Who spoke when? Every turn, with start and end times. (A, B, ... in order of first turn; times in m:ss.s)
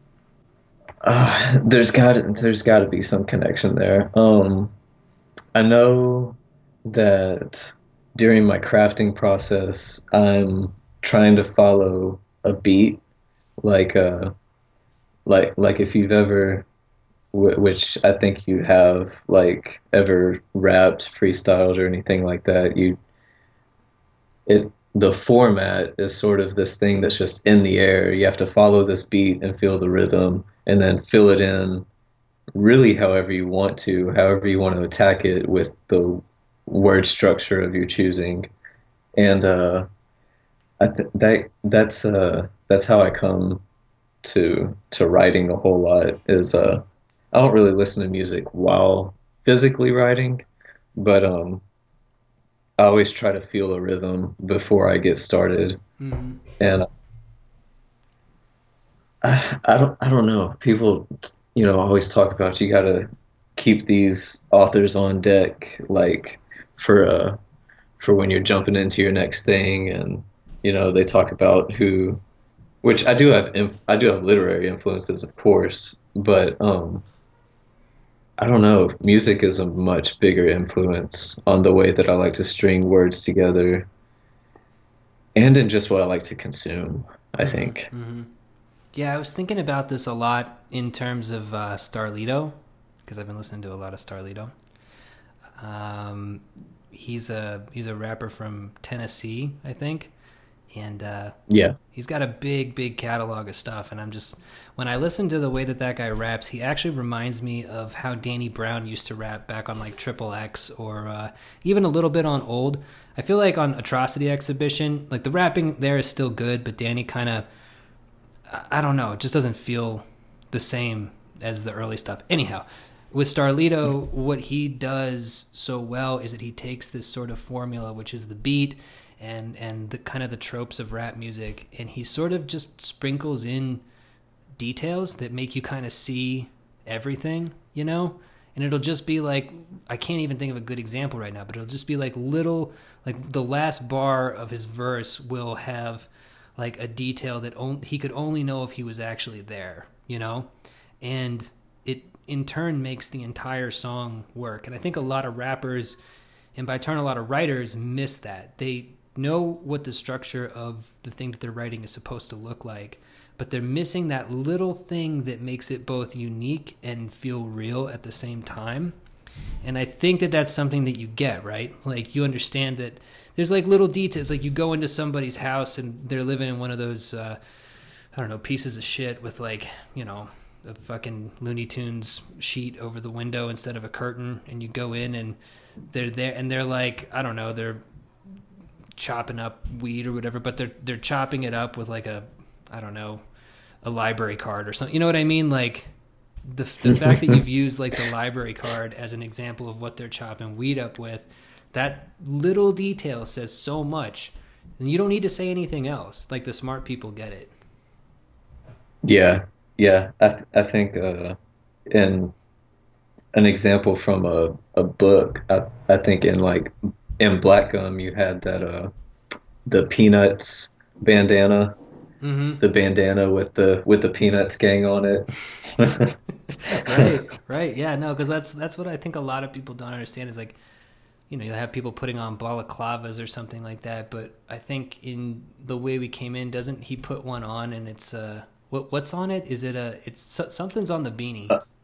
0:01.0-0:04.7 A
0:05.5-0:13.0 A
0:13.6-0:14.3 A
0:15.2-0:16.7 A
0:17.3-0:23.0 A
0:24.5-0:31.9 A
0:32.6-0:38.5 A
0:39.2-0:39.9 A
0:40.8-0:43.6 A
0:44.2-0:50.4 A
0:51.0-0:51.6 A
0:52.8-0:55.8 A
0:56.0-0:56.4 B
0:56.6-0:56.9 A
0:59.2-1:07.4 A
1:08.0-1:12.2 A
1:12.8-1:17.0 A
1:18.4-1:23.9 A
1:25.4-1:27.9 A
1:27.4-1:28.3 B
1:28.9-1:34.5 B
1:35.6-1:40.1 B
1:40.7-1:41.3 B
1:41.5-1:41.8 A
1:41.9-1:57.4 B
1:58.5-2:13.8 B
2:14.6-2:30.5 B
2:31.0-2:36.0 B
2:36.6-2:48.9 B
2:49.6-2:57.4 B
2:58.1-3:05.4 B
3:05.9-3:07.8 B
3:09.0-3:13.2 B
3:13.8-3:15.9 B
3:16.4-3:27.5 B
3:16.8-3:17.4 A
3:29.0-3:31.4 A
3:31.9-3:32.3 A
3:33.3-3:38.9 A
3:39.7-3:41.8 A
3:42.2-3:42.6 B
3:42.6-3:46.1 A
3:46.6-3:50.6 B
3:46.7-3:47.1 A
3:51.3-4:01.6 B